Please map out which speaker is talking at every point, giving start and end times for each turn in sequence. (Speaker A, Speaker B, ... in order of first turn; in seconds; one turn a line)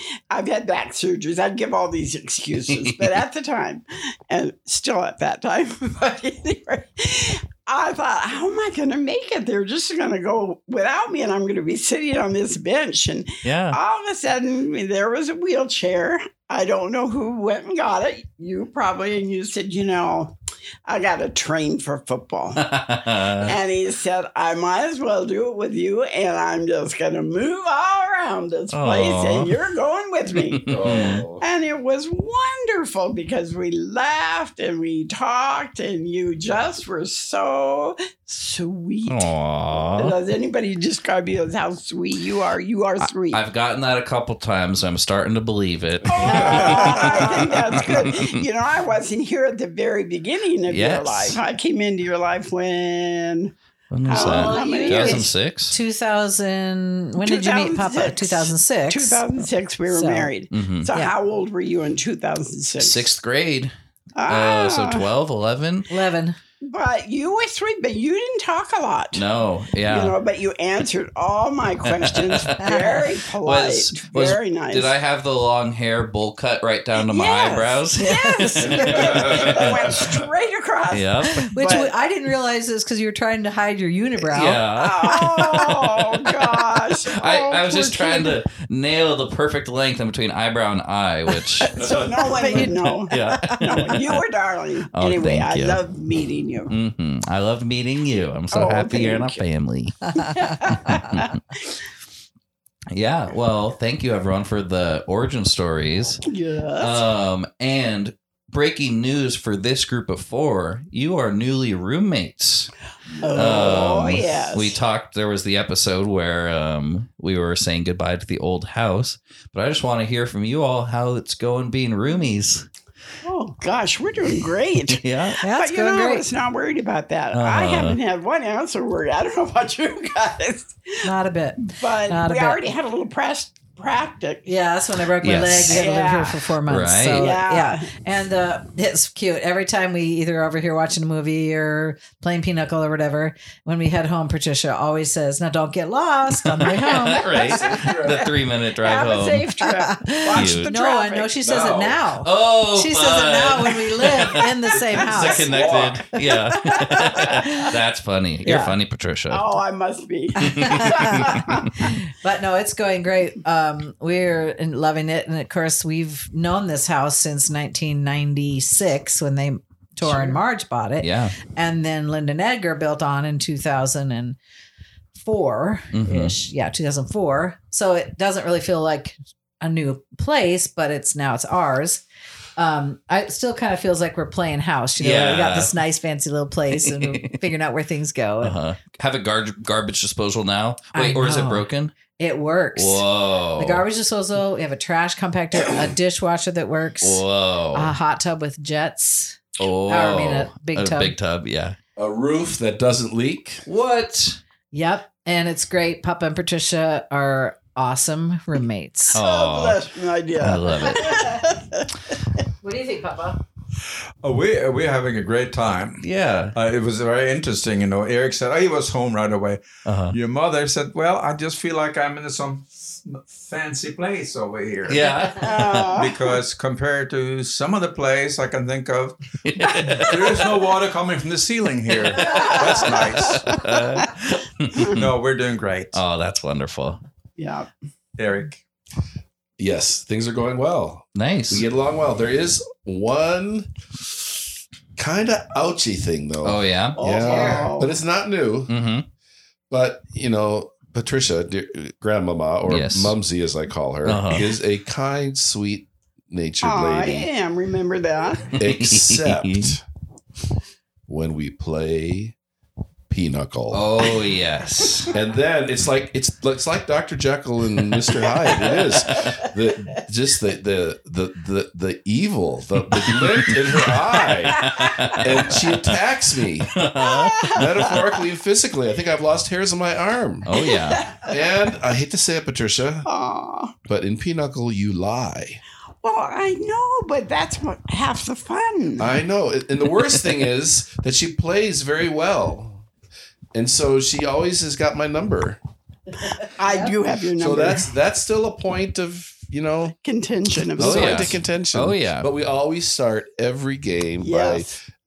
Speaker A: 0.3-22.7
Speaker B: 2.7-3.0
Speaker B: 13.4-13.8
Speaker B: 22.6-23.6
Speaker A: 23.4-43.4
Speaker B: 28.7-29.5
Speaker B: 30.4-31.2
Speaker C: 30.7-31.4
Speaker B: 39.1-40.2
Speaker B: 43.0-48.4
Speaker A: 46.1-53.5
Speaker C: 46.2-46.7
Speaker D: 46.2-47.4
Speaker B: 50.7-51.4
Speaker B: 53.9-55.8
Speaker A: 54.1-55.3
Speaker D: 54.1-59.3
Speaker A: 57.2-63.1
Speaker D: 59.9-60.3
Speaker B: 60.5-60.9
Speaker B: 62.8-63.7
Speaker A: 64.2-65.0
Speaker B: 64.3-65.9
Speaker D: 65.9-66.4
Speaker A: 66.6-69.2
Speaker B: 69.1-70.2
Speaker A: 69.9-74.9
Speaker B: 71.8-72.8
Speaker D: 72.6-73.0
Speaker B: 73.4-80.0
Speaker A: 77.0-81.9
Speaker D: 78.0-79.0
Speaker C: 78.9-79.7
Speaker B: 80.9-81.5
Speaker D: 81.3-84.6
Speaker B: 84.3-94.2
Speaker A: 84.7-88.4
Speaker A: 91.7-96.7
Speaker D: 92.3-93.8
Speaker B: 94.9-95.8
Speaker B: 96.7-101.3
Speaker A: 98.5-99.4
Speaker A: 100.2-101.4
Speaker B: 102.9-106.2
Speaker A: 106.3-107.0
Speaker B: 106.8-112.7
Speaker A: 113.2-114.8
Speaker B: 113.3-122.7
Speaker A: 123.2-131.1
Speaker B: 124.9-125.4
Speaker D: 125.4-126.3
Speaker B: 127.3-128.0
Speaker D: 131.0-132.7
Speaker A: 131.6-134.5
Speaker D: 134.5-147.9
Speaker B: 135.2-135.8
Speaker A: 135.7-136.5
Speaker B: 136.7-137.3
Speaker A: 137.2-137.9
Speaker B: 146.4-149.5
Speaker C: 147.4-148.3
Speaker A: 148.8-151.4
Speaker D: 149.6-155.5
Speaker B: 150.3-150.7
Speaker C: 151.4-152.0
Speaker B: 152.2-159.4
Speaker C: 155.5-156.1
Speaker D: 156.2-157.7
Speaker D: 158.4-158.8
Speaker A: 159.3-161.8
Speaker B: 160.4-161.4
Speaker D: 160.4-174.4
Speaker B: 171.0-171.4
Speaker D: 175.2-182.0
Speaker B: 175.9-176.3
Speaker D: 182.6-188.6
Speaker B: 185.0-185.7
Speaker B: 186.7-187.4
Speaker B: 188.4-191.9
Speaker D: 190.9-191.7
Speaker D: 192.2-193.0
Speaker B: 192.8-193.8
Speaker D: 193.6-197.2
Speaker B: 197.0-197.9
Speaker D: 197.7-201.2
Speaker B: 199.6-201.8
Speaker C: 202.0-203.7
Speaker B: 203.7-204.4
Speaker D: 204.7-209.2
Speaker B: 209.1-209.8
Speaker A: 209.2-211.9
Speaker B: 210.4-211.2
Speaker D: 212.6-213.4
Speaker E: 214.2-233.5
Speaker B: 216.0-216.6
Speaker B: 219.9-220.2
Speaker B: 224.9-226.0
Speaker A: 225.4-226.3
Speaker B: 229.5-230.3
Speaker A: 232.2-234.1
Speaker B: 232.2-235.0
Speaker E: 234.8-236.0
Speaker B: 235.9-237.0
Speaker A: 237.4-237.7
Speaker E: 238.2-238.6
Speaker C: 239.6-243.7
Speaker B: 241.2-241.7
Speaker C: 245.0-248.7
Speaker B: 246.4-247.0
Speaker A: 247.0-247.9
Speaker B: 248.7-249.1
Speaker C: 249.7-257.3
Speaker B: 252.7-253.2
Speaker B: 254.1-254.5
Speaker A: 256.6-258.6
Speaker C: 258.6-259.8
Speaker B: 258.6-259.7
Speaker C: 261.1-262.4
Speaker C: 263.1-264.0
Speaker B: 263.7-265.1
Speaker C: 265.1-276.8
Speaker B: 273.0-274.0
Speaker B: 274.6-276.0
Speaker A: 274.6-274.9
Speaker B: 276.7-277.9
Speaker A: 276.9-278.2
Speaker C: 277.5-280.5
Speaker B: 280.4-281.0
Speaker A: 280.5-281.4
Speaker C: 281.2-283.1
Speaker A: 283.1-283.8
Speaker C: 283.9-285.6
Speaker A: 286.0-289.1
Speaker C: 289.0-292.9
Speaker C: 293.5-295.6
Speaker A: 296.4-297.9
Speaker D: 296.6-296.9
Speaker C: 297.4-299.9
Speaker A: 300.0-301.4
Speaker C: 300.8-304.7
Speaker B: 300.8-302.3
Speaker A: 304.2-304.7